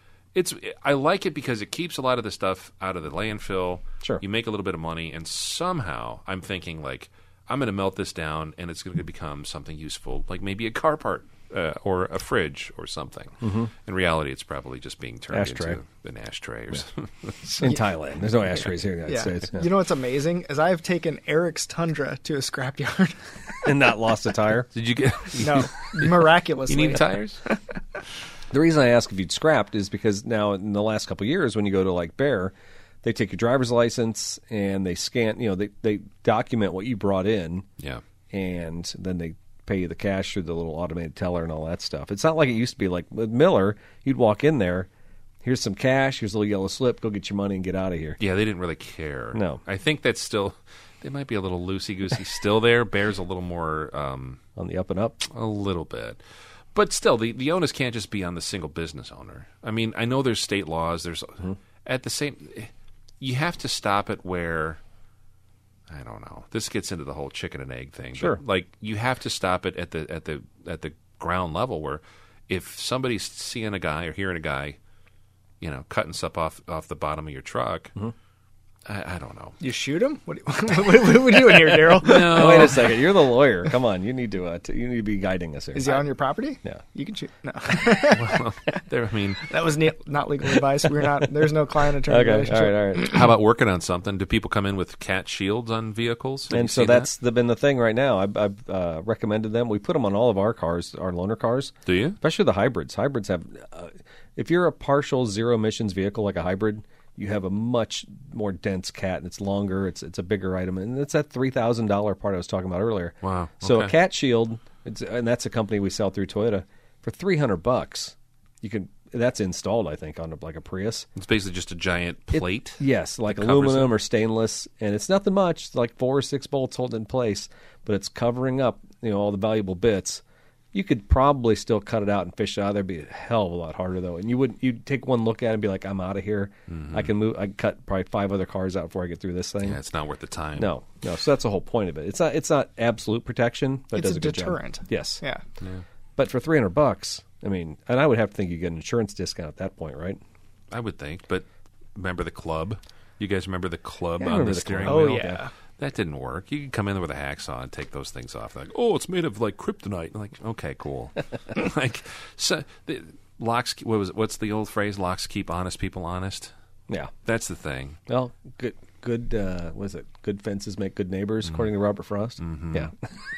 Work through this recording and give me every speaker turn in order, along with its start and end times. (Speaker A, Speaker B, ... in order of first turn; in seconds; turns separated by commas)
Speaker A: 0.3-17.6, Speaker B: 13.4-13.7, Speaker B: 15.3-15.8, Speaker B: 17.6-19.7, Speaker C: 19.1-23.7, Speaker B: 23.6-24.7, Speaker A: 24.7-27.4, Speaker C: 25.4-27.6, Speaker B: 28.5-37.7, Speaker B: 38.3-44.9, Speaker B: 45.4-48.2, Speaker A: 48.2-54.4, Speaker B: 49.3-49.6, Speaker B: 54.6-55.2, Speaker A: 55.2-56.2, Speaker A: 56.7-64.8, Speaker A: 65.9-74.8, Speaker A: 75.6-77.9, Speaker A: 78.8-79.6, Speaker C: 79.6-82.7, Speaker A: 81.9-83.0, Speaker B: 82.0-86.0, Speaker C: 85.7-88.4, Speaker A: 88.0-89.5, Speaker C: 89.5-93.2, Speaker B: 92.0-93.1, Speaker A: 93.0-97.1, Speaker B: 96.5-121.1, Speaker A: 101.8-102.2, Speaker A: 113.2-113.9, Speaker A: 121.2-122.8, Speaker B: 122.3-130.2, Speaker A: 123.3-123.9, Speaker B: 130.7-139.8, Speaker A: 136.7-137.1, Speaker A: 139.6-140.7, Speaker B: 140.6-145.2, Speaker C: 143.9-145.4, Speaker B: 146.2-150.2, Speaker A: 150.7-166.5, Speaker B: 154.2-155.4, Speaker C: 154.9-155.5, Speaker A: 167.2-168.0, Speaker B: 168.1-173.1, Speaker A: 172.4-172.9